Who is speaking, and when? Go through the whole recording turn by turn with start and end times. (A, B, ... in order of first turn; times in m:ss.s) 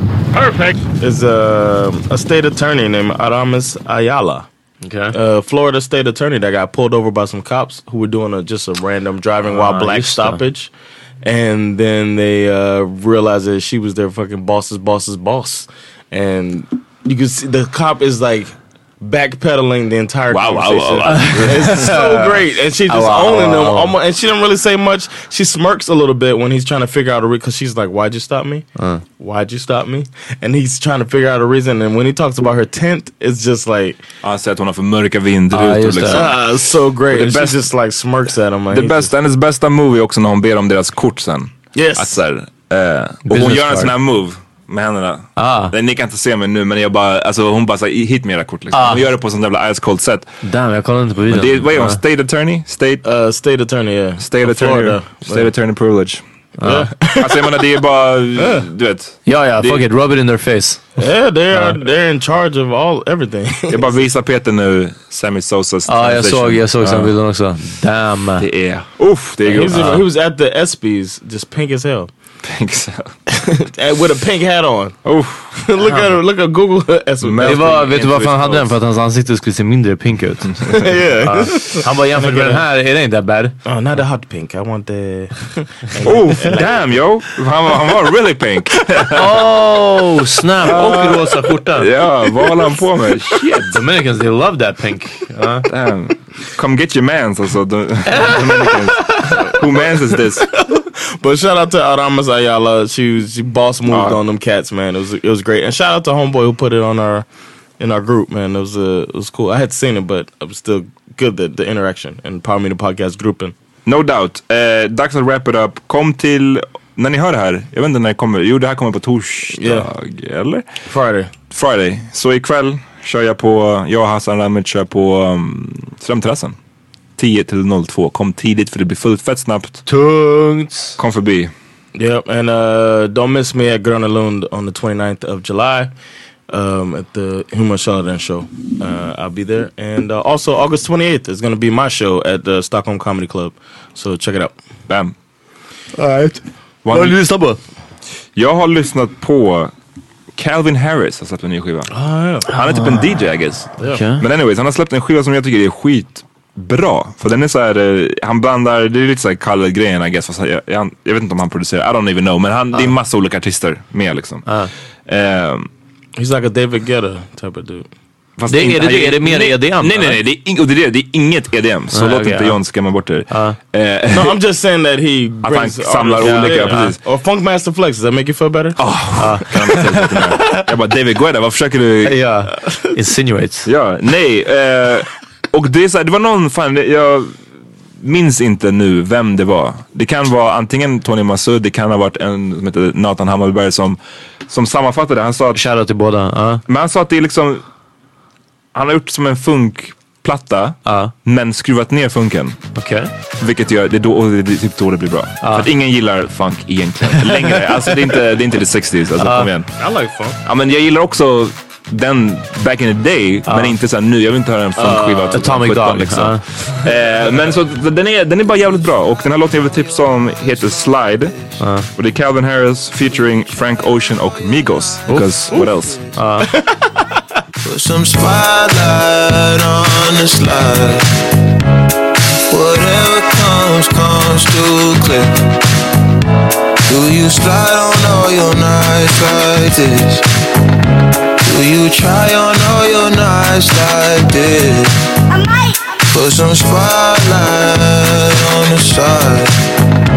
0:01.0-0:04.5 A
0:04.8-0:05.2 B
0:05.1-0:10.7 A
0:09.4-0:10.4 B
0:11.2-0:28.7 A
0:20.3-0:22.0 C
0:21.1-0:24.0 B
0:28.8-0:29.0 B
0:29.2-0:34.0 A
0:34.2-0:36.4 C
0:35.5-0:36.3 B
0:36.1-0:39.1 A
0:37.1-0:37.6 C
0:38.7-0:50.3 C
0:41.8-0:42.2 A
0:43.3-0:43.9 B
0:45.4-0:45.7 B
0:48.7-0:49.0 B
0:50.4-0:52.0 B
0:51.3-0:53.0 C
0:53.0-0:55.5 A
0:54.2-0:56.2 C
0:56.6-0:56.9 B
0:56.6-0:57.6 A
0:57.2-0:59.8 C
0:58.4-0:58.7 A
0:59.3-1:00.8 B
1:01.0-1:04.0 A
1:01.5-1:01.8 B
1:03.7-1:07.2 C
1:05.9-1:08.5 B
1:08.4-1:10.0 C
1:09.4-1:12.1 A
1:09.7-1:10.0 B
1:12.4-1:13.1 C
1:13.3-1:15.0 A
1:15.0-1:15.6 C
1:15.6-1:18.5 A
1:15.8-1:16.2 B
1:17.2-1:18.6 C
1:17.4-1:23.6 B
1:20.7-1:22.6 A
1:23.6-1:26.7 A
1:26.0-1:29.4 C
1:29.1-1:31.9 B
1:30.6-1:33.4 C
1:33.4-1:35.7 B
1:35.7-1:40.5 C
1:38.1-1:39.5 B
1:40.4-1:47.3 A
1:43.9-1:44.2 C
1:47.8-1:53.5 A
1:53.9-2:00.7 C
1:59.5-1:59.9 A
2:00.9-2:01.3 A
2:01.5-2:06.6 C
2:07.2-2:09.8 C
2:09.9-2:11.0 B
2:11.0-2:11.5 C
2:12.0-2:15.9 A
2:16.5-2:24.6 A
2:24.9-2:25.1 C
2:26.0-2:27.6 B
2:26.8-2:27.2 C
2:28.4-2:29.7 C
2:30.4-2:44.5 C
2:31.9-2:32.5 A
2:33.9-2:34.2 B
2:44.5-2:44.7 B
2:45.1-2:45.7 C
2:46.2-2:47.9 A
2:48.4-2:54.4 C
2:48.5-2:50.2 B
2:51.9-2:52.6 B
2:53.3-2:53.6 B
2:54.1-2:58.8 A
2:55.4-2:57.0 C
2:56.2-2:56.9 B
2:58.8-3:02.3 C
2:59.2-3:00.7 B
3:02.0-3:03.7 B
3:03.7-3:07.3 C
3:08.0-3:15.6 C
3:15.5-3:16.6 B
3:16.7-3:17.6 C
3:18.7-3:22.6 C
3:20.9-3:21.1 B
3:22.8-3:23.1 B
3:23.4-3:29.7 C
3:29.2-3:29.5 B
3:29.8-3:30.4 A
3:30.4-3:41.4 C
3:33.5-3:33.8 B
3:34.8-3:35.5 A
3:35.3-3:36.4 B
3:41.6-3:41.9 B
3:41.9-3:46.1 C
3:45.1-3:45.5 B
3:46.2-3:46.5 B
3:46.5-3:47.2 A
3:47.6-3:51.2 D
3:52.5-3:55.5 D
3:56.9-4:00.3 D
4:01.4-4:05.1 D
4:06.1-4:09.5 D